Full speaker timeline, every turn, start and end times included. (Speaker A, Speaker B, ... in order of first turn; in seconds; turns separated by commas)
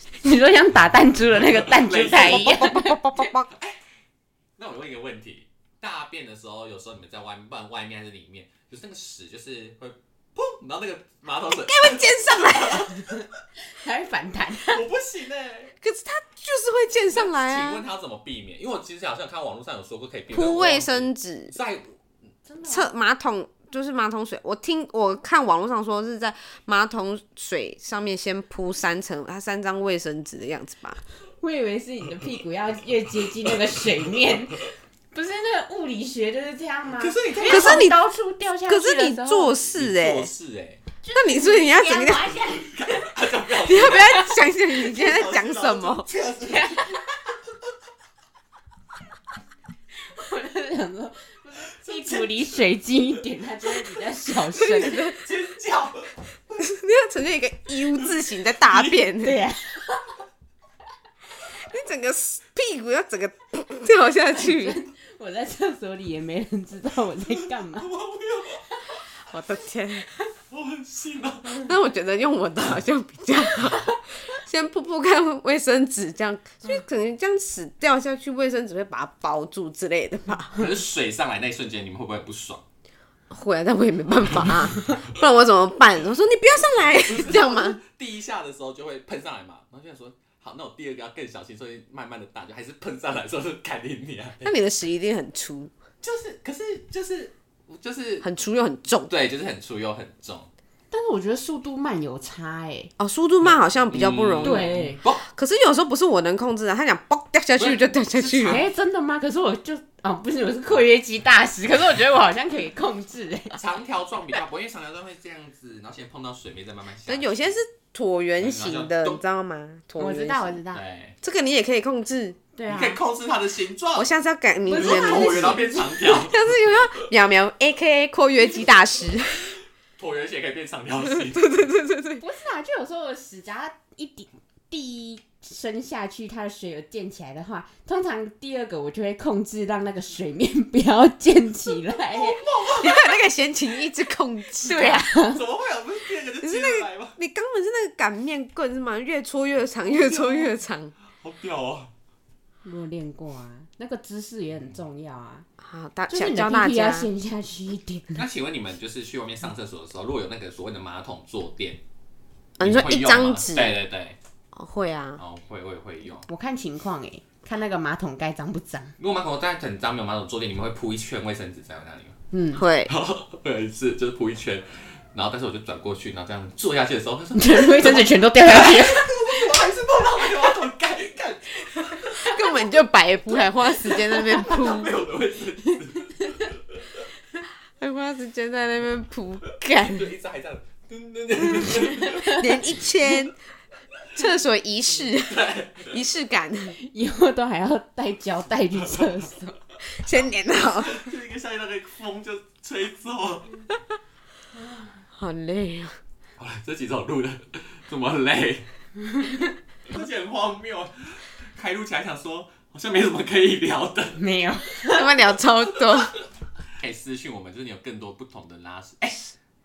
Speaker A: 0.2-2.9, Speaker B: 1.4-2.7, Speaker C: 2.2-3.5, Speaker B: 3.5-3.8, Speaker B: 4.6-13.3, Speaker C: 11.7-12.9, Speaker A: 13.7-14.8, Speaker B: 14.6-15.7, Speaker C: 15.8-17.8, Speaker B: 17.1-21.9, Speaker C: 20.3-21.6, Speaker A: 22.5-22.9, Speaker C: 22.6-31.0, Speaker A: 31.4-39.6, Speaker B: 37.0-37.8, Speaker C: 37.4-38.0, Speaker C: 38.7-40.3, Speaker B: 39.6-40.8, Speaker A: 41.0-43.1, Speaker C: 41.1-42.4, Speaker B: 42.3-47.0, Speaker C: 43.6-46.1, Speaker A: 43.9-44.3, Speaker A: 46.4-47.0, Speaker A: 50.1-55.0, Speaker B: 51.9-52.4, Speaker C: 54.5-55.2, Speaker B: 54.6-56.7, Speaker C: 56.6-59.4, Speaker B: 57.9-59.0, Speaker A: 59.2-60.1, Speaker C: 61.4-64.8, Speaker A: 64.3-67.9, Speaker B: 67.3-68.6, Speaker C: 69.3-70.1, Speaker B: 70.5-71.7, Speaker C: 71.5-80.7, Speaker A: 73.6-74.0, Speaker B: 80.5-82.6, Speaker C: 83.3-87.8, Speaker B: 87.0-94.5, Speaker C: 94.4-95.7, Speaker B: 96.0-98.3, Speaker C: 98.2-99.1, Speaker B: 99.1-100.5, Speaker A: 100.9-102.9, Speaker C: 103.0-104.7, Speaker B: 103.4-105.2, Speaker A: 104.4-105.0, Speaker C: 105.3-108.6, Speaker B: 107.6-108.7, Speaker A: 108.4-113.6, Speaker B: 113.6-117.6, Speaker C: 117.1-120.6, Speaker B: 118.4-119.2, Speaker A: 120.0-120.8, Speaker B: 120.7-121.2, Speaker C: 121.2-122.4, Speaker A: 122.5-123.0, Speaker B: 122.7-124.1, Speaker C: 123.9-129.6, Speaker A: 124.7-125.8, Speaker B: 124.7-127.1, Speaker B: 130.0-131.7, Speaker C: 131.1-132.2, Speaker A: 132.2-142.4, Speaker B: 142.1-143.2, Speaker C: 142.6-145.1, Speaker A: 144.6-145.4, Speaker B: 145.1-147.2, Speaker C: 146.4-150.9, Speaker B: 149.8-150.6, Speaker B: 151.2-151.9, Speaker A: 152.6-155.5, Speaker C: 155.6-157.1, Speaker A: 156.1-158.2, Speaker B: 158.1-161.8, Speaker C: 162.6-163.8, Speaker B: 162.6-164.2, Speaker C: 164.5-165.2, Speaker B: 165.2-166.3, Speaker A: 166.3-168.9, Speaker B: 169.0-172.2, Speaker A: 172.3-172.6, Speaker C: 172.6-172.9, Speaker B: 172.9-182.7, Speaker A: 177.3-179.5, Speaker C: 182.2-184.9, Speaker B: 183.4-186.8, Speaker C: 187.8-190.1, Speaker B: 189.8-193.3, Speaker C: 191.7-193.3, Speaker A: 192.0-192.6, Speaker C: 194.1-196.8, Speaker B: 195.3-196.0, Speaker A: 196.8-199.6, Speaker C: 199.9-201.0, Speaker B: 200.7-203.6, Speaker C: 205.1-205.9, Speaker B: 206.4-208.7, Speaker A: 209.1-209.5, Speaker B: 209.9-214.2, Speaker A: 214.2-215.1, Speaker C: 214.9-216.1, Speaker B: 215.8-216.2, Speaker B: 216.8-219.3